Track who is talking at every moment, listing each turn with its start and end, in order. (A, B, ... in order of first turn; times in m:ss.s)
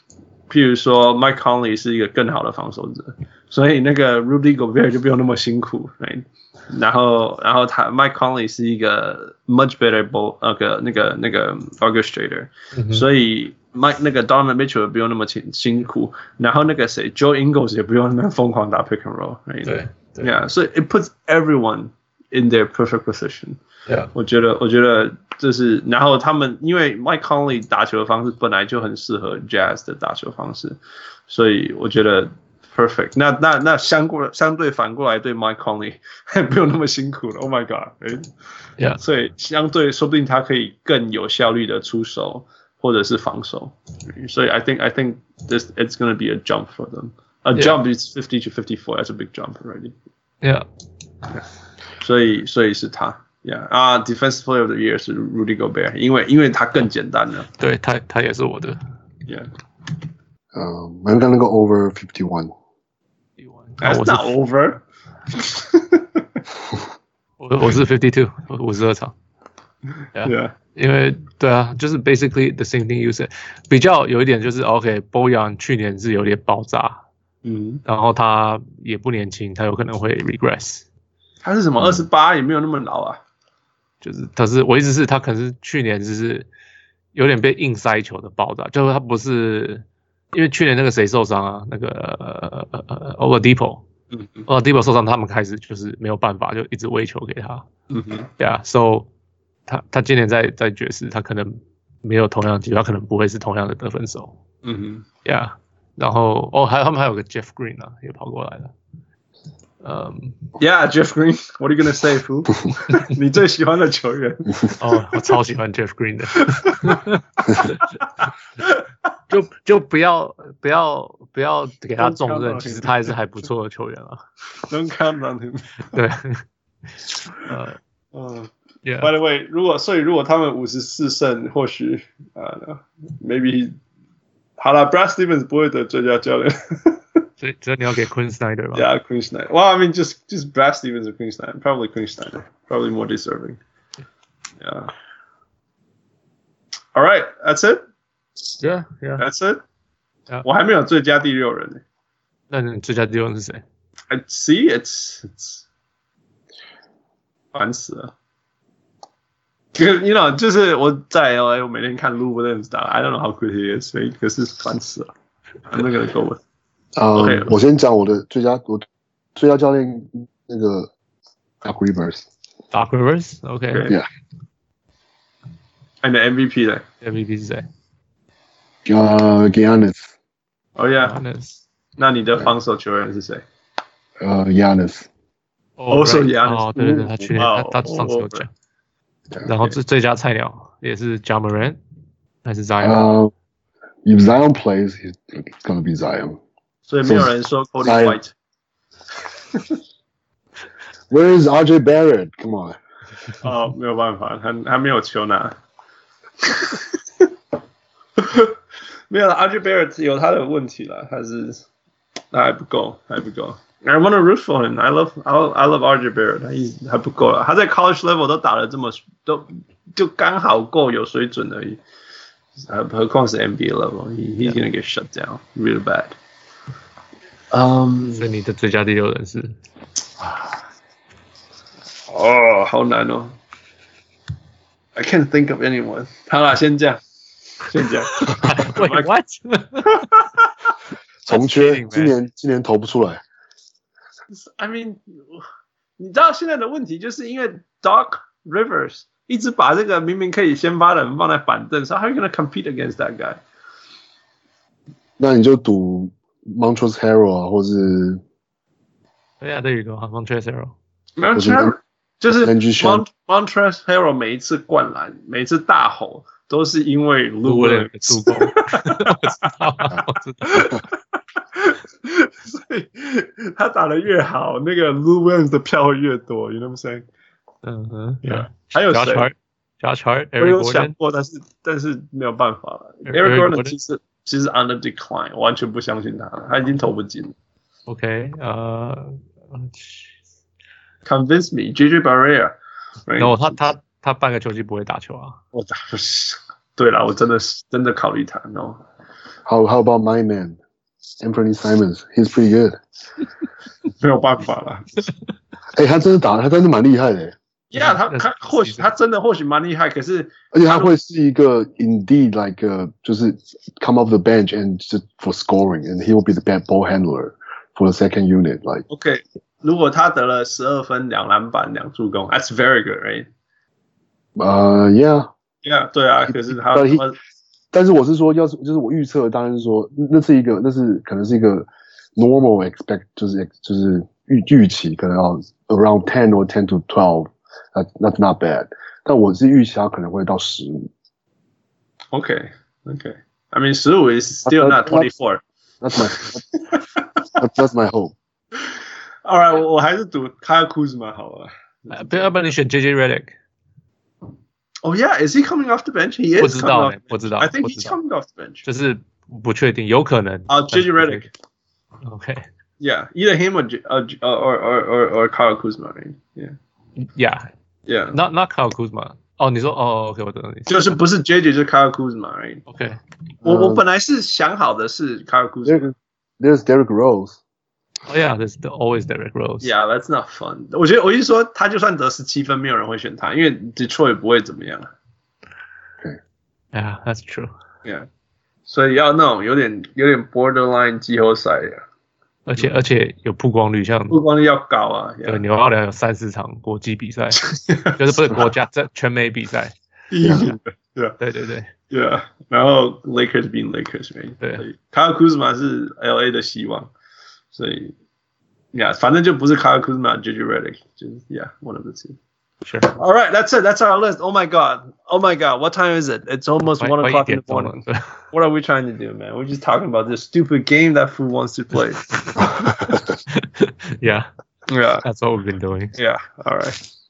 0:00.5-0:23.6 A
0:12.7-0:13.0 B
0:19.6-0:20.3 B
0:24.1-0:30.8 A
0:31.3-0:38.3 A
0:39.0-0:49.9 A
0:52.0-0:57.5 A
0:57.6-0:58.8 B
1:00.5-1:02.5 C
1:03.4-1:04.3 B
1:03.8-1:04.8 A
1:05.3-1:06.2 A
1:07.4-1:09.2 B
1:10.2-1:17.0 B
1:10.2-1:10.5 A
1:17.4-1:17.8 A
1:17.8-1:20.8 B
1:21.4-1:23.2 A
1:24.0-1:26.5 B
1:27.1-1:33.8 B
1:34.1-1:34.5 A
1:34.5-1:37.7 B
1:37.9-1:38.3 A
1:38.4-1:39.1 B
1:39.7-1:44.4 B
1:44.6-1:45.0 A
1:45.2-1:48.7 B
1:49.8-1:50.5 B
1:50.6-1:54.8 A
1:54.8-1:57.9 B
1:56.4-1:57.7 A
1:59.3-2:04.2 B
2:02.0-2:03.1 A
2:04.7-2:06.0 A
2:05.9-2:06.4 B
2:07.5-2:07.8 B
2:08.1-2:08.5 A
2:08.8-2:09.1 B
2:09.0-2:13.8 A
2:14.6-2:17.0 A
2:17.4-2:18.9 B
2:18.8-2:23.6 A
2:24.6-2:24.9 A
2:27.0-2:27.8 A
2:28.6-2:29.2 B
2:29.2-2:29.6 A
2:30.4-2:31.8 A
2:32.5-2:33.6 B
2:34.1-2:35.6 A
2:37.5-2:38.1 A
2:39.8-2:45.1 A
2:45.7-2:46.4 A
2:47.0-2:50.9 C
2:47.2-2:47.5 A
2:51.6-2:52.3 C
2:52.7-2:53.9 B
2:53.7-2:54.0 A
2:56.0-2:56.8 A
2:57.0-2:57.7 B
2:58.8-3:00.1 C
3:00.8-3:01.2 A
3:01.0-3:01.6 B
3:02.0-3:03.4 A
3:04.2-3:05.1 C
3:05.8-3:08.5 B
3:05.9-3:08.4 A
3:09.4-3:11.8 B
3:12.4-3:13.0 B
3:12.8-3:13.3 C
3:14.0-3:16.4 C
3:16.9-3:18.3 A
3:17.0-3:17.3 C
3:17.8-3:18.2 C
3:21.1-3:22.8 C
3:23.4-3:25.5 A
3:26.4-3:27.3 A
3:28.2-3:28.6 A
3:29.1-3:31.6 A
3:32.3-3:41.8 A
3:42.6-3:46.2 A
3:47.5-3:48.3 A
3:48.1-3:49.6 B
3:52.1-3:53.4 A
3:55.0-3:57.0 A
3:57.6-3:59.1 A
3:58.1-4:00.1 B
3:59.9-4:00.5 A
4:01.3-4:03.2 C
4:01.3-4:02.2 B
4:04.3-4:05.4 A
4:06.0-4:13.4 A
4:15.2-4:18.2 C
4:19.4-4:20.8 B
4:21.2-4:29.3 A
4:21.3-4:21.8 C
4:22.3-4:23.0 C
4:27.4-4:30.8 B
4:30.5-4:30.8 A
4:31.4-4:37.0 A
4:37.6-4:41.0 B
4:38.3-4:39.3 A
4:40.4-4:47.3 A
4:43.1-4:43.8 B
4:47.9-4:50.1 B
4:51.1-4:53.6 A
4:53.2-4:55.4 B
4:55.5-4:58.8 A
4:59.5-5:00.6 C
5:01.2-5:02.8 C
5:03.9-5:05.1 A
5:05.8-5:07.4 C
5:07.7-5:10.9 A
5:07.8-5:08.9 B
5:10.5-5:18.8 C
5:18.9-5:23.3 A
5:24.4-5:25.3 C
5:25.6-5:27.2 A
5:26.3-5:27.0 C
5:27.7-5:40.9 C
5:42.1-5:45.4 A
5:44.5-5:45.1 C
5:45.8-5:46.4 C
5:46.0-5:47.3 A
5:47.4-5:48.2 C
5:49.3-5:52.3 A
5:51.9-5:53.4 B
5:54.8-5:58.6 A
5:56.4-5:58.0 B
5:58.6-6:01.3 B
6:00.5-6:01.3 A
6:02.0-6:02.4 B
6:02.8-6:06.6 A
6:07.0-6:07.5 B
6:07.9-6:08.2 A
6:08.1-6:11.0 B
6:10.7-6:12.6 A
6:12.7-6:13.0 B
6:13.4-6:15.9 A
6:13.4-6:13.8 C
6:15.7-6:17.4 C
6:18.1-6:19.7 B
6:19.6-6:24.9 A
6:26.7-6:27.5 B
6:28.7-6:31.8 A
6:32.5-6:34.2 B
6:34.1-6:35.4 A
6:35.2-6:39.7 B
6:37.4-6:38.4 A
6:40.1-6:41.2 A
6:40.2-6:40.5 C
6:41.2-6:41.7 B
6:41.9-6:46.9 A
6:47.5-6:47.9 A
6:48.7-6:52.2 A
6:52.6-6:52.9 B
6:52.9-7:02.9 A
6:56.8-6:58.2 B
7:02.2-7:02.6 B
7:02.4-7:03.0 C
7:03.3-7:04.3 B
7:04.7-7:05.0 A
7:05.0-7:06.0 B
7:06.0-7:06.8 A